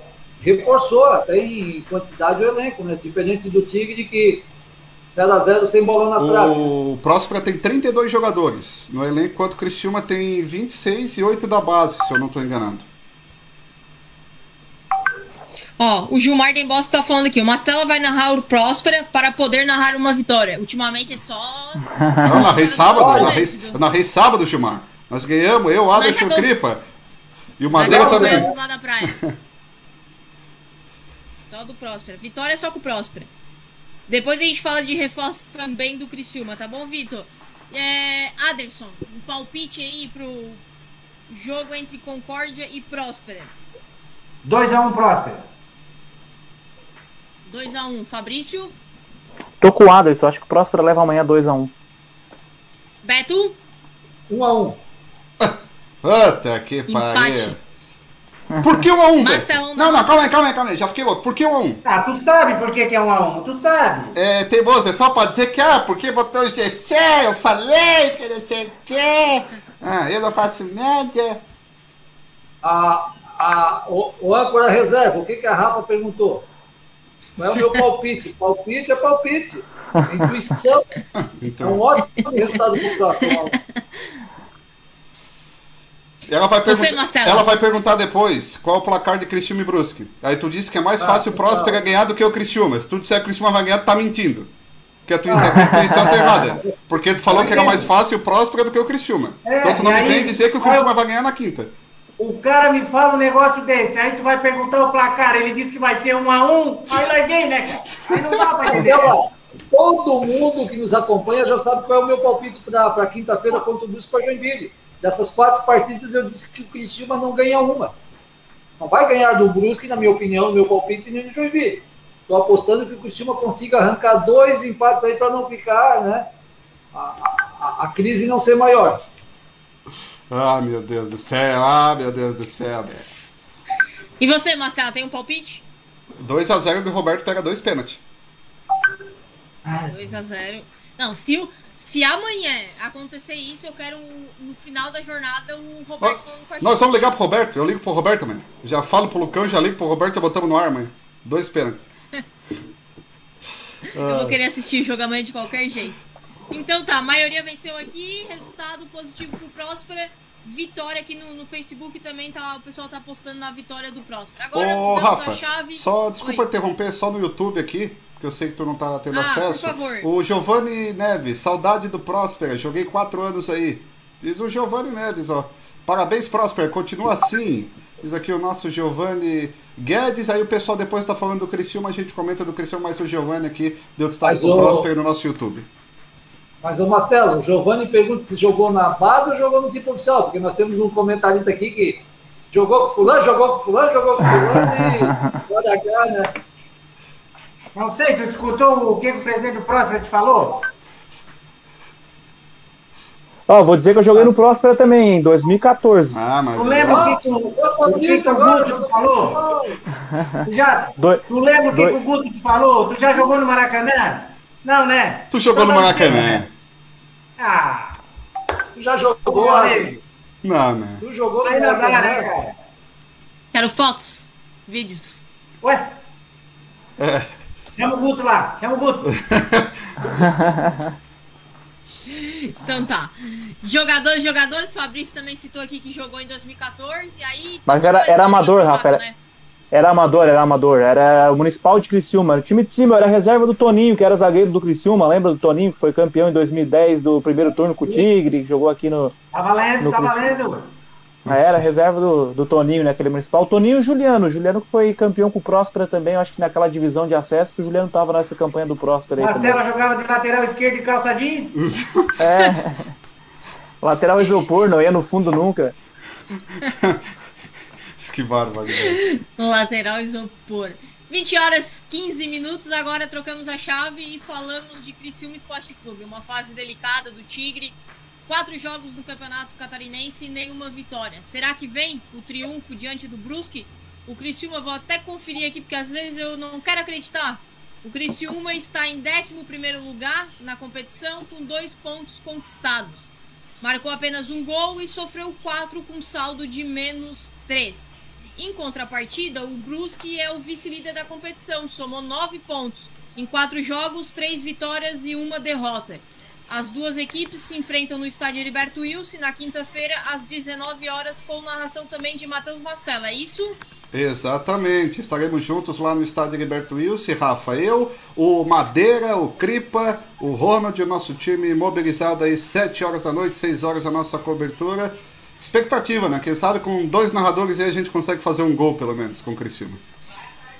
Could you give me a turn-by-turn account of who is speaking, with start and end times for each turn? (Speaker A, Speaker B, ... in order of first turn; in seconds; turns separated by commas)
Speaker A: 0.4-4.5, Speaker A: 5.1-6.7, Speaker B: 6.2-12.8, Speaker C: 15.8-23.8, Speaker D: 22.0-22.3, Speaker B: 22.2-26.8, Speaker A: 22.9-23.4, Speaker C: 25.9-26.5, Speaker B: 27.6-28.5, Speaker C: 27.7-29.1, Speaker A: 27.8-28.5, Speaker B: 29.0-29.3, Speaker C: 31.5-33.3, Speaker C: 34.1-40.6, Speaker C: 41.3-43.5, Speaker E: 44.4-45.4, Speaker C: 47.5-48.7, Speaker D: 49.6-51.7, Speaker C: 53.0-53.6, Speaker A: 54.3-54.8, Speaker B: 55.4-57.5, Speaker C: 56.9-57.5, Speaker B: 58.6-61.8, Speaker C: 59.1-60.3, Speaker E: 61.8-64.1, Speaker B: 64.1-71.4, Speaker A: 72.6-76.4, Speaker A: 77.4-81.0, Speaker B: 81.2-81.8, Speaker A: 81.6-83.5, Speaker B: 86.3-94.5, Speaker C: 86.6-87.6, Speaker A: 91.0-91.8, Speaker B: 95.0-101.7, Speaker A: 95.3-96.7, Speaker D: 95.4-96.3, Speaker E: 97.3-97.9, Speaker E: 99.4-100.9, Speaker E: 102.2-109.1, Speaker A: 108.7-117.9, Speaker A: 118.8-126.3, Speaker A: 126.9-129.0, Speaker B: 130.3-133.1, Speaker C: 134.2-135.6, Speaker B: 136.2-138.0, Speaker C: 139.7-147.1, Speaker B: 146.0-151.9, Speaker B: 153.9-154.4, Speaker C: 153.9-166.4, Speaker B: 164.5-185.7, Speaker C: 169.1-170.1, Speaker A: 184.2-184.9, Speaker A: 186.6-196.3, Speaker D: 194.4-195.3, Speaker E: 197.7-200.6, Speaker D: 203.5-206.2, Speaker B: 206.1-207.1, Speaker E: 206.5-209.4, Speaker A: 206.8-209.8, Speaker D: 210.1-210.4, Speaker E: 210.4-216.4, Speaker D: 211.0-212.0, Speaker B: 215.3-216.5, Speaker E: 217.4-218.0, Speaker A: 218.8-219.9, Speaker E: 219.3-220.0, Speaker B: 220.4-221.0, Speaker A: 221.0-222.3, Speaker E: 221.4-222.5, Speaker C: 223.5-225.2, Speaker E: 225.6-225.9, Speaker B: 227.0-227.3, Speaker E: 227.8-229.1, Speaker B: 229.1-229.7, Speaker E: 230.1-230.3, Speaker C: 232.1-239.1, Speaker D: 237.7-239.0, Speaker D: 239.7-249.1, Speaker E: 249.3-250.7, Speaker D: 249.8-250.3, Speaker B: 251.2-251.7, Speaker D: 251.3-259.6, Speaker E: 259.2-261.7, Speaker B: 261.6-262.1, Speaker D: 262.2-262.9, Speaker D: 263.8-265.7, Speaker B: 266.7-267.0, Speaker B: 268.0-269.0, Speaker C: 268.8-313.6, Speaker B: 313.9-329.8